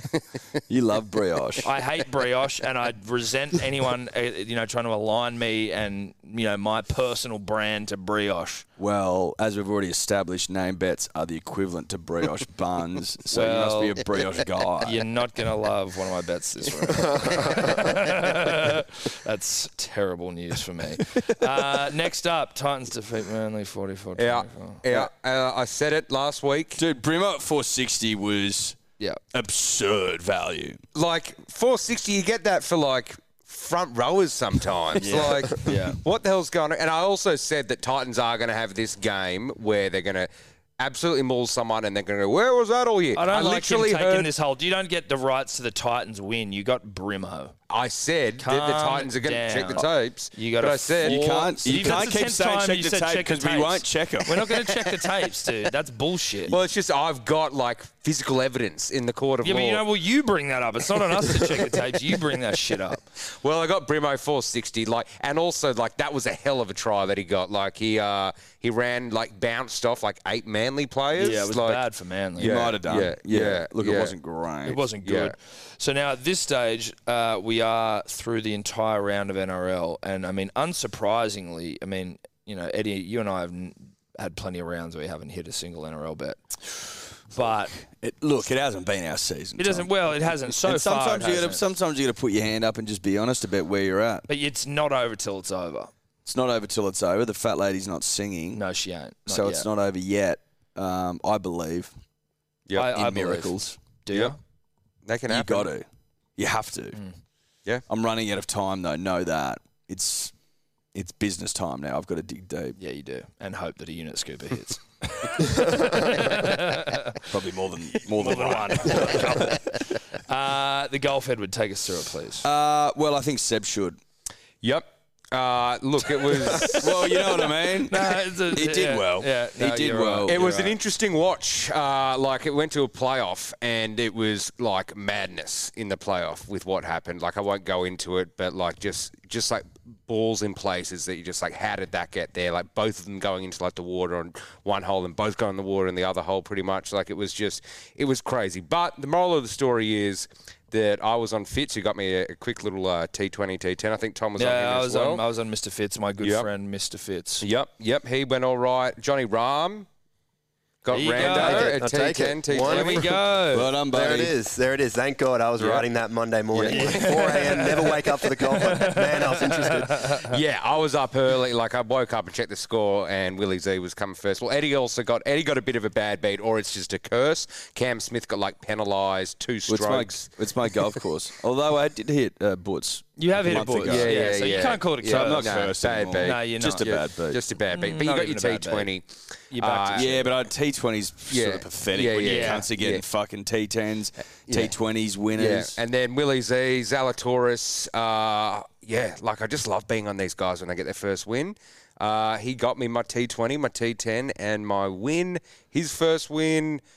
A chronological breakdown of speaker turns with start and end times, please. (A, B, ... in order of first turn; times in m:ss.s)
0:00.7-0:01.7 A
0:01.6-0:08.6 B
0:08.8-0:15.0 A
0:13.3-0:14.0 B
0:14.8-0:24.8 B
0:17.0-0:17.7 C
0:21.0-0:21.6 A
0:24.2-0:26.8 D
0:26.8-0:28.8 A
0:29.3-0:30.8 A
0:30.9-0:44.3 D
0:35.0-0:36.0 B
0:35.0-0:35.3 A
0:43.1-0:47.5 B
0:47.7-0:51.2 D
0:48.4-0:56.5 B
0:51.0-0:54.7 A
0:56.5-0:59.8 D
0:59.4-1:03.0 B
1:03.4-1:11.8 D
1:11.2-1:12.6 B
1:12.4-1:14.1 D
1:12.4-1:14.8 A
1:14.6-1:27.8 B
1:15.0-1:15.3 D
1:27.8-1:34.3 A
1:29.6-1:31.6 B
1:34.3-1:35.9 B
1:36.2-1:38.6 A
1:38.5-1:39.7 B
1:39.3-1:41.9 A
1:42.7-1:44.4 B
1:42.8-1:43.8 A
1:44.1-1:44.3 D
1:45.0-1:45.7 D
1:45.3-1:47.0 A
1:47.9-1:50.3 A
1:50.9-1:52.8 A
1:52.8-1:57.2 B
1:57.2-1:59.5 A
1:58.1-2:02.5 B
2:02.4-2:04.0 A
2:04.6-2:07.3 D
2:06.5-2:10.5 A
2:07.9-2:10.8 B
2:10.3-2:35.2 D
2:34.4-2:37.4 B
2:36.2-2:36.5 D
2:37.4-2:39.9 D
2:40.8-2:43.1 D
2:40.9-2:41.8 B
2:41.2-2:43.2 C
2:42.6-2:43.7 B
2:43.5-2:44.3 A
2:43.8-2:50.2 C
2:46.5-2:47.4 D
2:46.7-2:50.3 B
2:50.2-3:00.3 D
2:59.7-3:07.4 A
3:03.2-3:05.6 B
3:03.7-3:10.2 D
3:06.2-3:06.9 B
3:07.7-3:08.9 B
3:09.5-3:10.3 B
3:09.9-3:15.8 A
3:11.3-3:13.0 D
3:12.2-3:12.7 B
3:14.5-3:14.7 D
3:15.4-3:26.8 D